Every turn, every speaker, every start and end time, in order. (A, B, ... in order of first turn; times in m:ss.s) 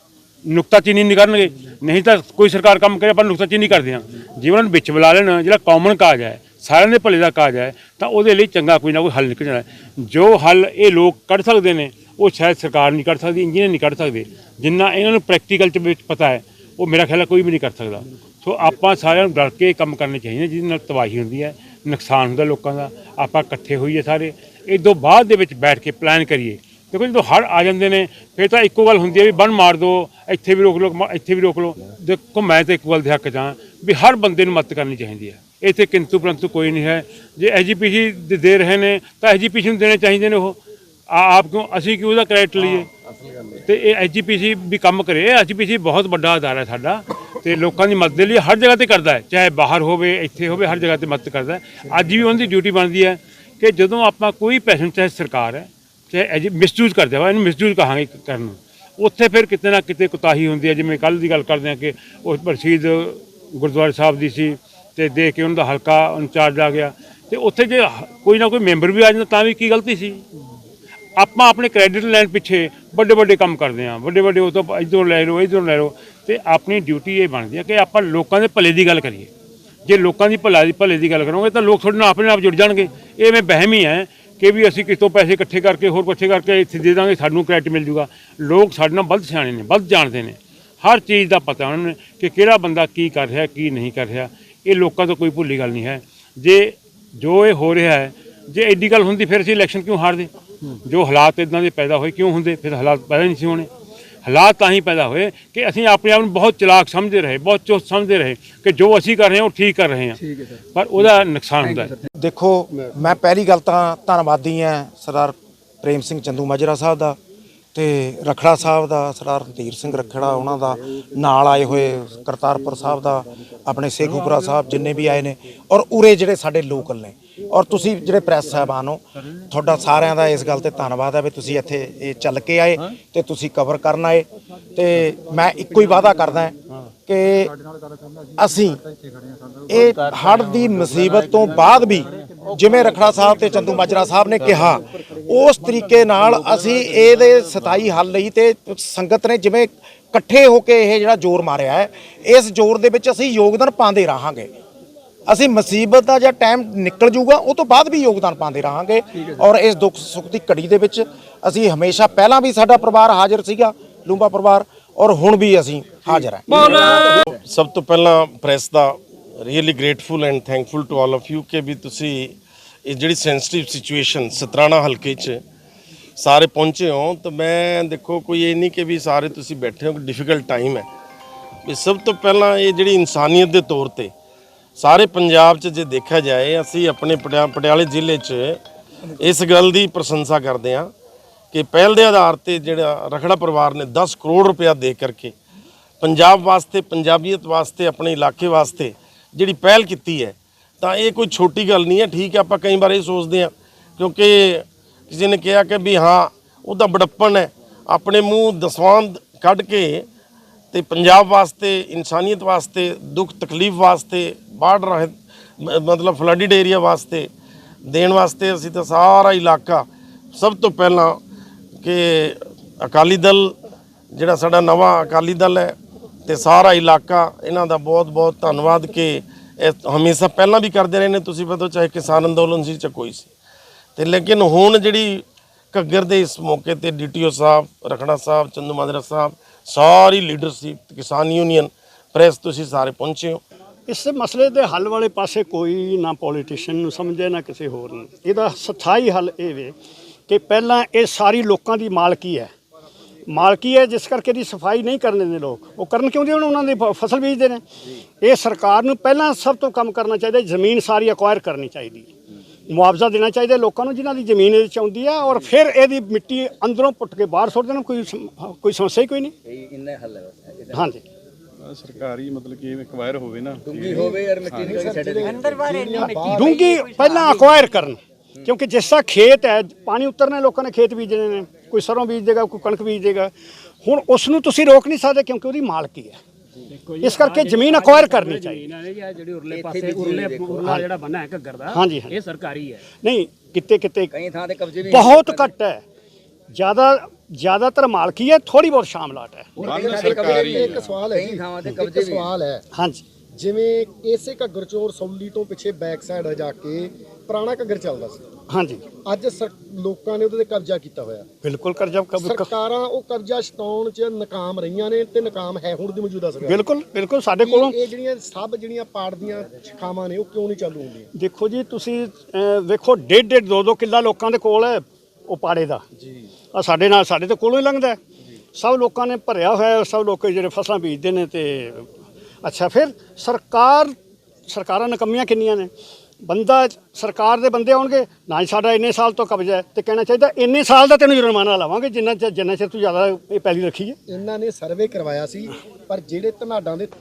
0:00.5-0:40.6 A
0:41.1-0:42.8 A
0:43.7-1:10.2 A
1:11.2-1:19.3 A
1:19.8-1:40.3 A
1:40.8-1:43.7 A
1:44.2-1:50.2 A
1:50.7-1:51.8 A
1:52.1-1:57.2 B
1:57.7-2:16.5 B
2:17.1-2:17.5 B
2:18.4-2:18.8 B
2:19.7-2:34.5 B
2:35.3-2:46.7 B
2:46.6-2:47.2 C
2:46.7-2:52.3 D
2:52.8-2:55.4 D
2:56.2-3:00.9 D
3:01.6-3:04.1 D
3:04.8-3:08.6 D
3:09.2-3:10.9 D
3:11.5-3:15.3 D
3:16.0-3:30.0 D
3:30.7-3:37.3 D
3:37.9-3:41.2 D
3:41.8-3:43.5 D
3:44.1-3:45.7 D
3:46.2-3:53.3 D
3:54.0-3:55.2 D
3:55.7-4:03.4 D
4:03.9-4:09.8 E
4:10.3-4:12.5 E
4:13.3-4:17.6 E
4:18.2-4:22.1 E
4:22.7-4:29.3 E
4:29.5-4:30.9 C
4:30.7-4:31.0 E
4:31.6-4:32.6 F
4:33.6-4:36.1 C
4:33.8-4:36.6 G
4:36.3-4:43.3 E
4:36.4-4:37.9 H
4:43.8-4:46.2 E
4:47.0-4:52.8 H
4:47.0-4:48.6 E
4:49.5-4:50.8 C
4:51.7-4:52.1 E
4:53.0-4:54.1 E
4:54.1-4:55.5 C
4:54.9-4:55.8 E
4:56.5-4:59.4 E
4:59.6-5:02.3 C
4:59.7-5:00.8 F
5:00.3-5:02.6 G
5:03.4-5:08.2 G
5:08.5-5:08.8 E
5:09.0-5:11.2 G
5:11.5-5:12.4 E
5:12.1-5:16.6 G
5:16.5-5:17.7 E
5:17.4-5:21.1 G
5:21.2-5:25.8 E
5:26.5-5:28.0 E
5:28.5-5:31.9 E
5:32.4-5:33.9 E
5:34.5-5:35.7 E
5:36.2-5:44.0 E
5:44.1-5:46.9 G